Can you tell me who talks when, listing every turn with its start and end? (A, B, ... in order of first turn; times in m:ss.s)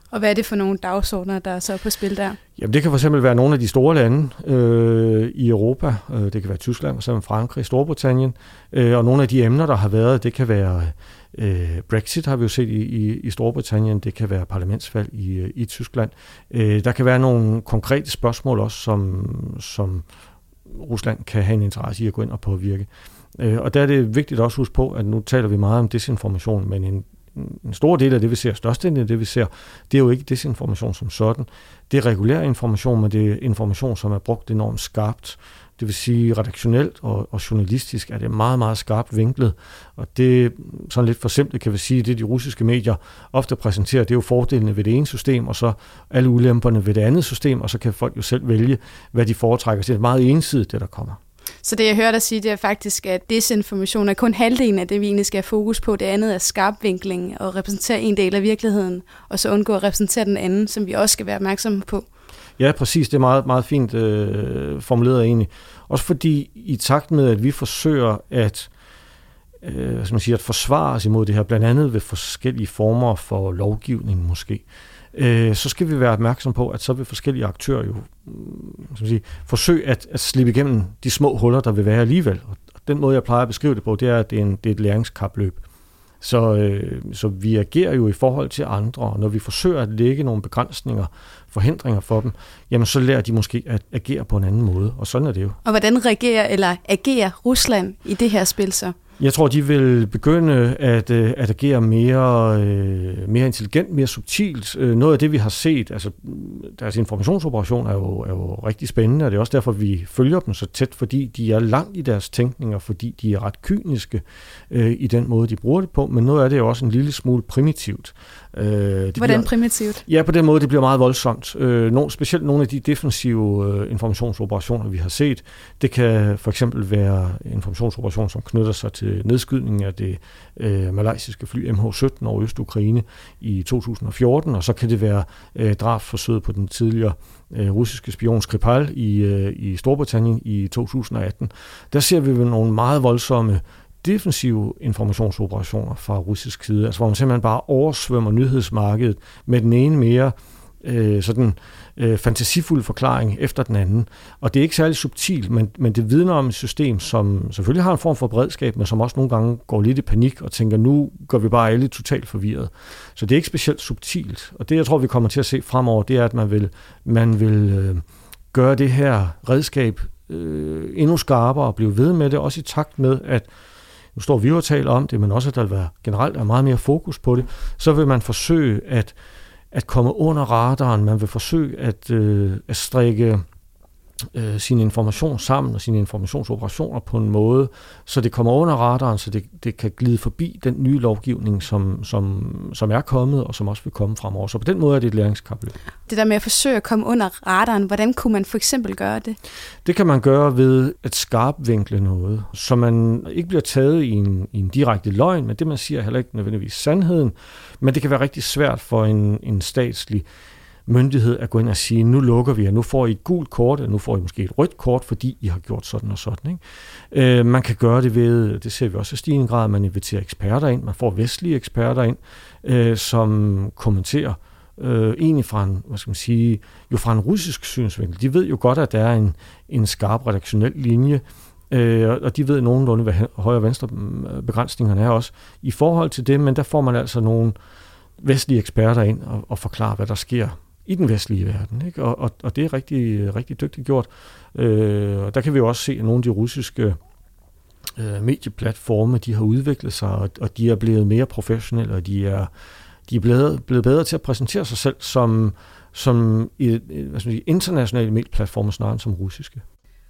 0:00.1-0:02.4 A
0:02.6-0:20.0 B
0:20.7-0:51.2 B
0:51.6-1:02.0 A
1:02.6-1:08.7 B
1:09.6-1:25.6 B
1:26.2-1:35.6 B
1:35.6-1:39.0 A
1:39.2-1:59.5 B
1:59.2-2:00.0 A
2:00.0-2:53.4 B
2:54.2-2:59.1 B
2:59.7-3:03.4 B
3:04.3-3:15.7 B
3:16.1-3:19.4 A
3:19.8-3:30.2 B
3:30.9-3:57.5 B
3:58.2-4:07.0 B
4:08.0-4:12.5 B
4:13.1-4:19.6 B